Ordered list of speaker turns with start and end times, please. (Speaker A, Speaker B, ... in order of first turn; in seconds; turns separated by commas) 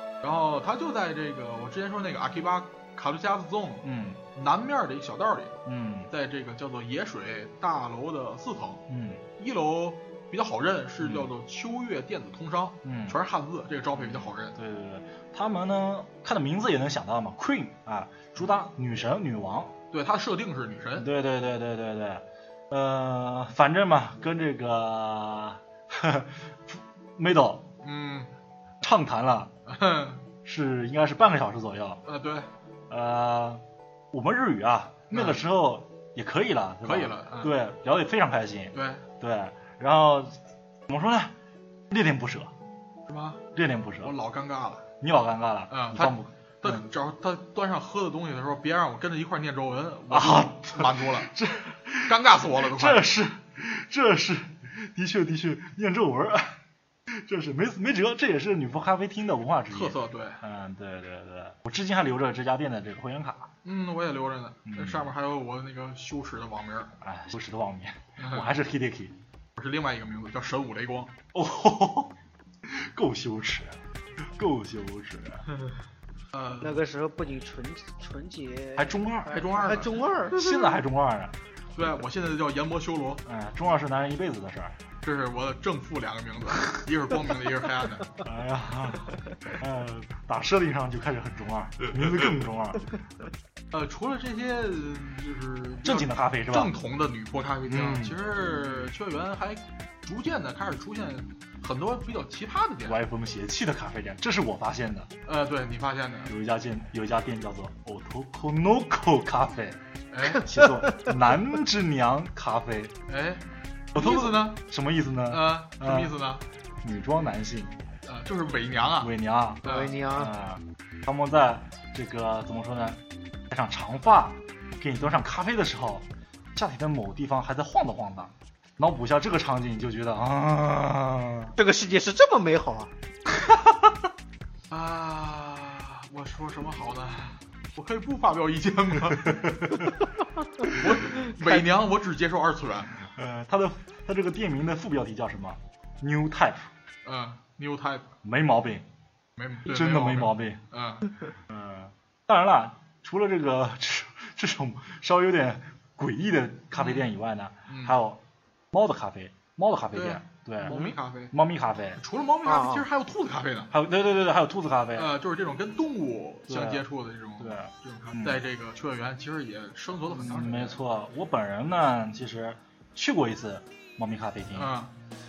Speaker A: 0.2-5.6, Speaker B: 3.8-4.2, Speaker B: 5.6-6.1, Speaker A: 6.1-8.8, Speaker B: 8.9-9.2, Speaker A: 9.4-14.6, Speaker B: 11.0-11.3, Speaker B: 12.8-13.2, Speaker B: 13.9-19.7, Speaker A: 19.9-21.1, Speaker B: 21.0-27.6, Speaker A: 27.8-28.3, Speaker B: 28.8-29.5, Speaker A: 29.7-30.2, Speaker B: 30.4-32.0, Speaker A: 32.0-32.5, Speaker B: 32.9-41.3, Speaker A: 35.1-35.4, Speaker A: 36.8-37.5, Speaker A: 38.7-39.0, Speaker B: 41.9-42.5, Speaker A: 43.1-43.4, Speaker B: 43.5-44.1, Speaker A: 44.0-44.9, Speaker B: 45.0-46.8, Speaker A: 45.7-51.3, Speaker B: 50.1-56.6, Speaker A: 52.0-53.1, Speaker B: 57.1-63.5, Speaker A: 59.7-60.4, Speaker A: 63.6-66.9, Speaker B: 64.7-65.1, Speaker B: 67.0-69.1, Speaker A: 68.2-68.6, Speaker A: 69.5-71.1, Speaker B: 71.3-72.1, Speaker B: 72.6-73.8, Speaker B: 74.3-75.4, Speaker A: 76.3-76.8, Speaker C: 76.6-80.8, Speaker B: 78.8-79.3, Speaker A: 79.3-80.0, Speaker B: 80.3-81.3, Speaker A: 81.7-83.2, Speaker B: 83.2-84.8, Speaker A: 85.0-88.2, Speaker B: 88.2-92.9, Speaker A: 93.7-103.0, Speaker B: 95.8-96.7, Speaker B: 97.7-98.2, Speaker B: 102.8-105.1, Speaker A: 105.2-106.3, Speaker B: 106.3-112.9, Speaker A: 110.1-110.5, Speaker C: 110.6-111.0, Speaker A: 113.1-113.4, Speaker A: 113.9-114.6, Speaker B: 113.9-116.1, Speaker A: 115.3-116.4, Speaker B: 116.8-117.7, Speaker A: 118.0-119.1, Speaker B: 119.0-131.6, Speaker A: 119.6-120.0, Speaker C: 119.6-120.3, Speaker C: 131.6-132.9, Speaker A: 134.7-139.6, Speaker B: 139.2-139.9, Speaker A: 140.7-143.1, Speaker C: 141.1-141.6, Speaker B: 143.1-146.7, Speaker A: 147.0-148.1, Speaker B: 148.2-148.8, Speaker A: 149.4-151.1, Speaker B: 149.6-150.6, Speaker B: 151.5-158.2, Speaker A: 156.7-157.1, Speaker A: 157.7-158.0, Speaker B: 158.7-162.0, Speaker A: 159.9-161.3, Speaker A: 162.0-163.7, Speaker C: 162.4-162.9, Speaker B: 163.7-165.1, Speaker A: 164.9-170.8, Speaker B: 166.5-166.8, Speaker B: 167.4-168.4, Speaker B: 170.1-174.7, Speaker A: 174.5-174.9